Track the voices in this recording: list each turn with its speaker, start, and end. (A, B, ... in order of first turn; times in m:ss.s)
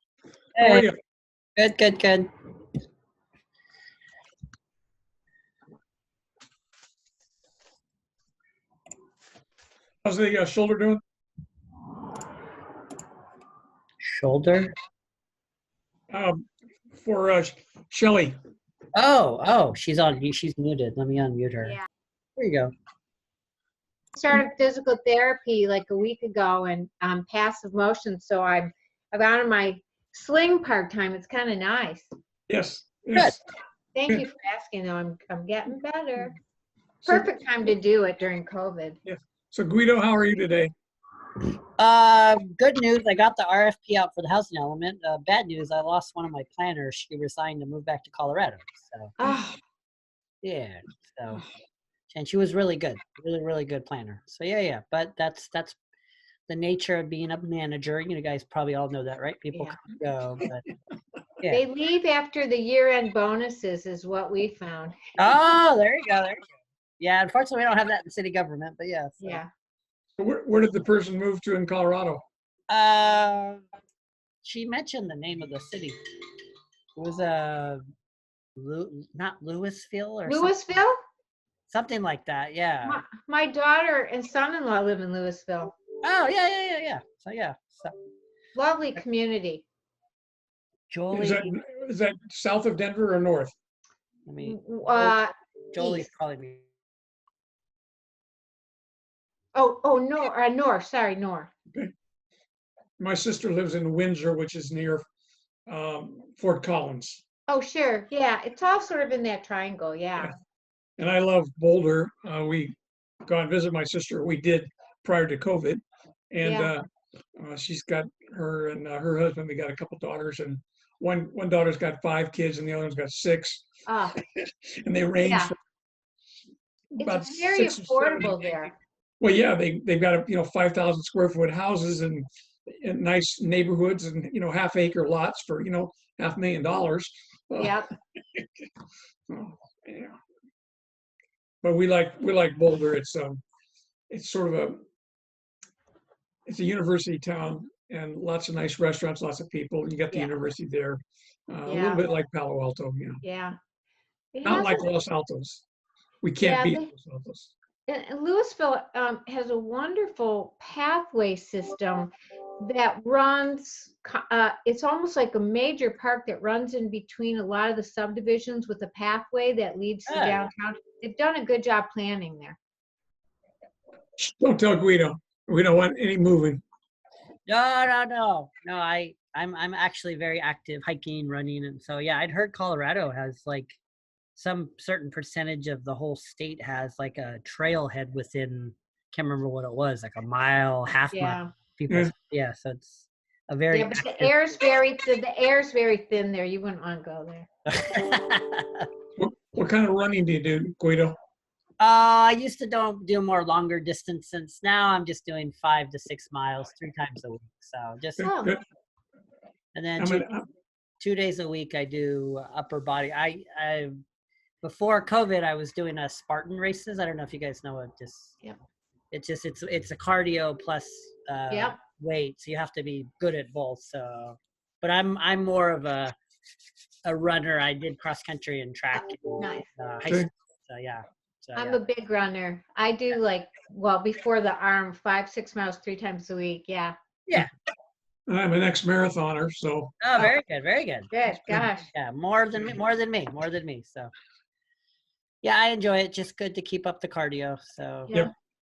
0:00.6-0:00.9 A
0:00.6-0:01.0 B
0:01.6-0:02.3 A
0:10.0-0:11.0 B
0:14.0-0:14.7 A
0:16.1-0:18.4 B
0:18.9-0:21.8 A
0:22.4-0:22.7 A
0:24.2-0:32.1 C
0:32.5-0:33.4 B
0:33.9-0:36.4 C
0:37.0-0:37.4 B
0:37.1-0:39.0 C
0:39.0-0:40.7 B
0:41.8-0:49.1 A
0:49.2-0:49.6 C
0:50.4-0:51.4 A
0:52.1-0:55.8 A
0:56.5-1:00.6 A
0:59.5-0:59.8 C
1:01.5-1:05.0 C
1:05.2-1:06.4 A
1:07.0-1:09.4 A
1:09.2-1:09.5 C
1:10.2-1:12.2 B
1:12.7-1:13.6 A
1:14.4-1:16.0 A
1:17.0-1:17.8 A
1:18.6-1:20.6 A
1:20.2-1:21.0 C
1:21.7-1:23.0 A
1:22.8-1:25.7 C
1:26.0-1:28.0 A
1:28.5-1:29.6 C
1:30.9-1:31.5 A
1:31.1-1:33.5 B
1:34.3-1:35.2 A
1:34.4-1:36.0 C
1:35.7-1:36.6 A
1:39.5-1:41.5 C
1:43.0-1:45.0 B
1:45.7-1:47.2 B
1:47.5-1:50.3 C
1:51.0-1:56.8 B
1:56.4-1:56.7 C
1:57.4-2:05.6 B
2:03.8-2:04.2 C
2:05.2-2:05.5 C
2:06.9-2:08.5 B
2:07.0-2:08.7 C
2:09.2-2:17.8 B
2:17.6-2:17.9 C
2:19.3-2:20.2 B
2:21.6-2:23.4 B
2:24.1-2:24.8 B
2:26.5-2:33.2 B
2:31.6-2:32.1 C
2:33.2-2:33.6 C
2:34.3-2:34.9 C
2:34.4-2:35.6 B
2:36.2-2:37.5 B
2:36.4-2:36.9 C
2:37.9-2:52.6 C
2:50.1-2:50.4 A
2:54.2-2:56.6 B
2:57.5-3:03.8 A
3:04.3-3:14.3 A
3:11.1-3:11.5 C
3:13.7-3:17.5 C
3:17.7-3:18.9 A
3:19.2-3:21.2 B
3:21.8-3:28.3 A
3:28.2-3:28.6 B
3:28.2-3:28.5 C
3:29.7-3:30.2 A
3:30.0-3:30.5 B
3:31.0-3:33.9 A
3:34.6-3:38.4 A
3:39.1-3:46.1 A
3:41.5-3:41.8 C
3:47.0-3:51.8 A
3:48.9-3:49.7 C
3:51.5-3:56.9 C
3:58.3-4:00.3 B
4:00.0-4:01.1 A
4:01.1-4:01.9 C
4:01.9-4:04.1 A
4:05.4-4:08.2 A